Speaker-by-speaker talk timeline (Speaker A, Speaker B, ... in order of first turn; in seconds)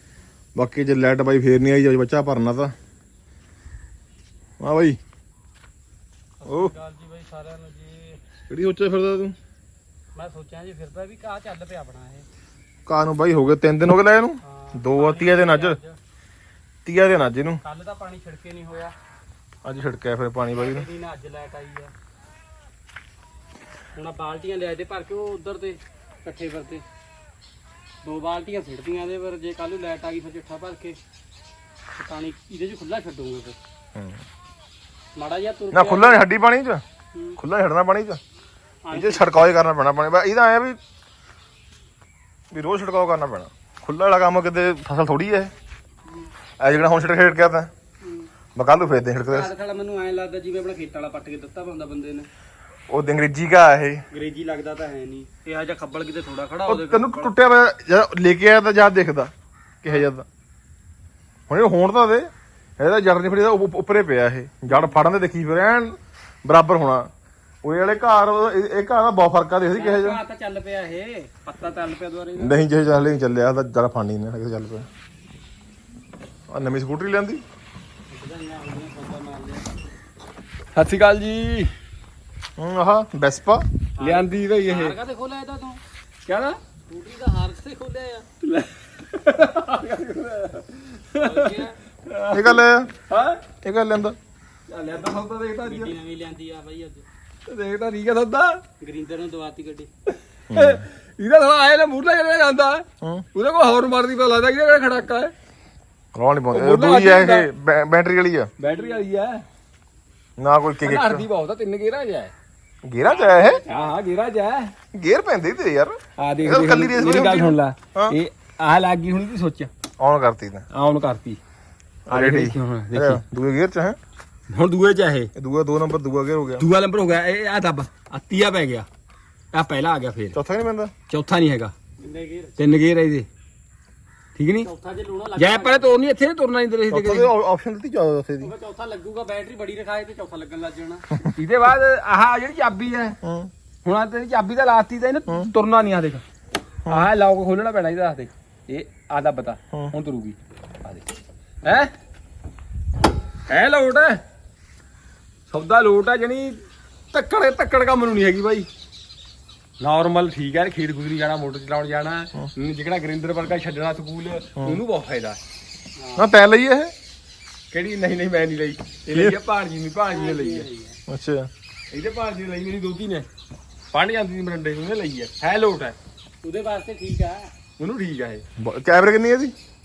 Speaker A: 0.5-2.7, 4.6-5.0, 6.5-6.7, 8.5-9.3, 12.9-15.8, 16.8-17.6, 19.6-20.9, 35.7-36.8, 37.4-38.2, 38.9-40.8, 42.5-45.5, 46.6-47.7, 48.5-49.5, 52.9-54.0, 56.7-59.3, 59.8-60.2, 61.5-67.1, 67.6-70.2, 72.3-74.9, 76.5-77.4, 82.6-83.7, 92.3-92.9, 93.6-94.2, 100.5-100.8, 106.1-108.5, 110.4-111.2, 112.8-113.6, 114.9-118.2, 120.0-120.6, 122.1-124.0, 125.3-126.6, 130.3-130.9, 136.9-138.5, 143.2-143.5, 166.2-166.9, 171.1-171.5, 178.6-179.5
Speaker B: 6.4-8.2, 10.2-12.2, 14.4-16.0, 17.6-18.9, 20.6-21.9, 23.9-26.8, 28.0-31.0, 31.9-33.6, 35.2-36.2, 37.1-37.4, 38.8-39.3, 48.0-48.3, 49.3-52.3, 54.1-57.3, 69.7-72.6, 78.1-79.7, 84.0-85.8, 86.9-88.3, 91.2-91.7, 95.6-97.0, 98.8-99.9, 113.1-113.8, 132.0-132.6, 134.6-136.0, 138.4-141.0, 166.0-166.3, 170.1-171.0, 176.4-177.5
Speaker C: 80.8-81.7, 84.0-85.0, 86.2-86.6, 88.4-93.4, 94.7-95.9, 97.5-98.6, 100.1-102.8, 103.3-105.3, 106.5-107.5, 108.6-109.4, 110.8-112.3, 113.6-114.7, 116.2-119.7, 120.7-121.4, 122.1-123.2, 124.5-125.3, 126.6-128.8, 129.5-130.3, 131.1-131.7, 132.6-133.3, 134.3-134.7, 135.4-137.3, 141.4-143.2, 143.8-146.2, 146.9-151.0, 151.6-151.9, 153.5-154.2, 155.5-156.6, 157.1-158.7, 159.8-165.4, 167.7-170.7, 171.9-173.2, 173.9-175.9, 177.8-178.4